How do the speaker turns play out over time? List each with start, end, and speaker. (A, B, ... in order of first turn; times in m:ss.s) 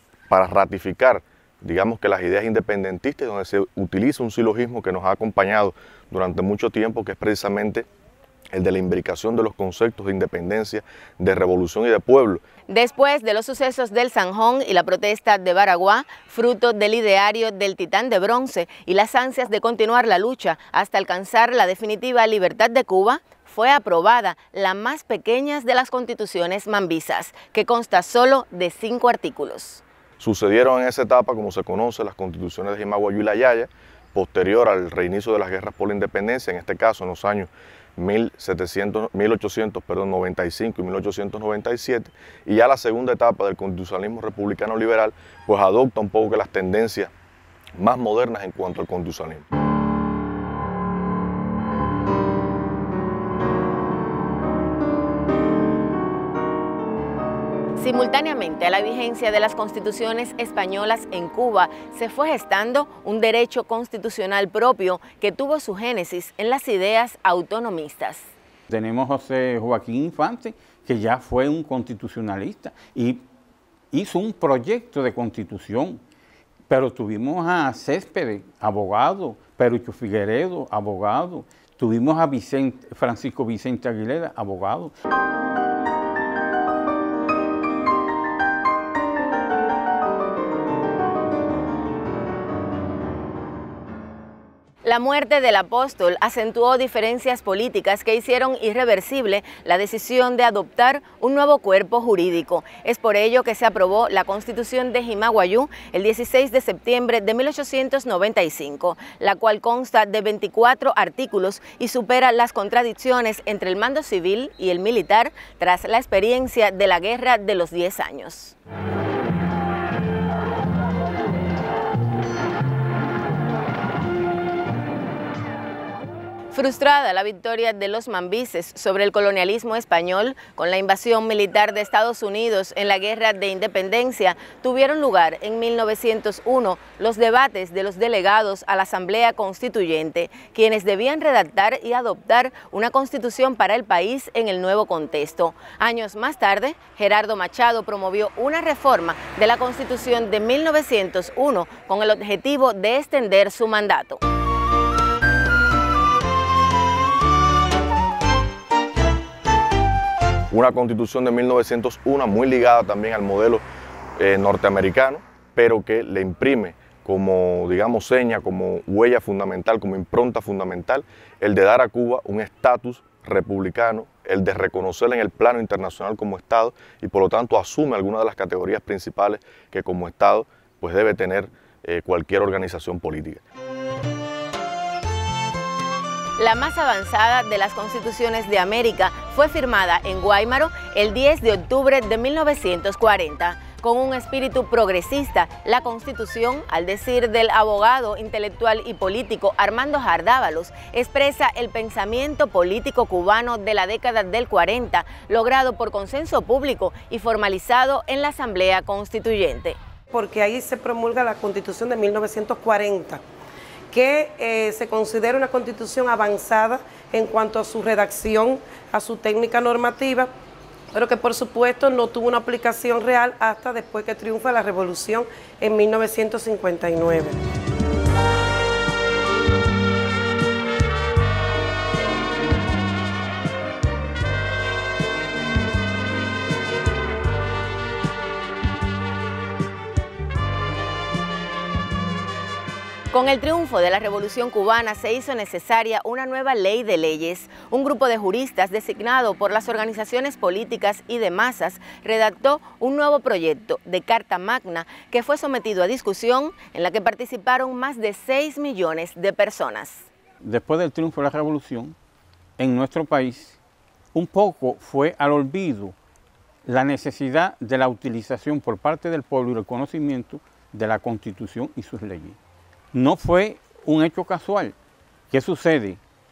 0:00.3-0:07.9 A
0:08.5-0:12.4 A
0:12.7-0:29.8 B
0:30.2-0:47.1 A
0:47.8-0:49.4 A
0:57.8-1:08.3 B
1:08.7-1:13.2 C
1:13.9-1:16.0 C
1:16.7-1:24.9 C
1:34.8-1:58.6 B
2:06.5-2:34.2 B
2:40.5-2:43.6 A
2:44.2-3:03.4 A
3:06.4-3:29.8 B
3:30.1-3:33.2 D
3:33.9-3:40.3 D
3:40.9-3:47.4 D
4:03.1-4:20.1 B
4:20.4-4:21.9 C
4:22.6-4:23.6 C
4:24.1-4:26.0 C
4:26.6-4:32.4 C
4:32.9-4:34.8 C
4:35.3-4:36.0 C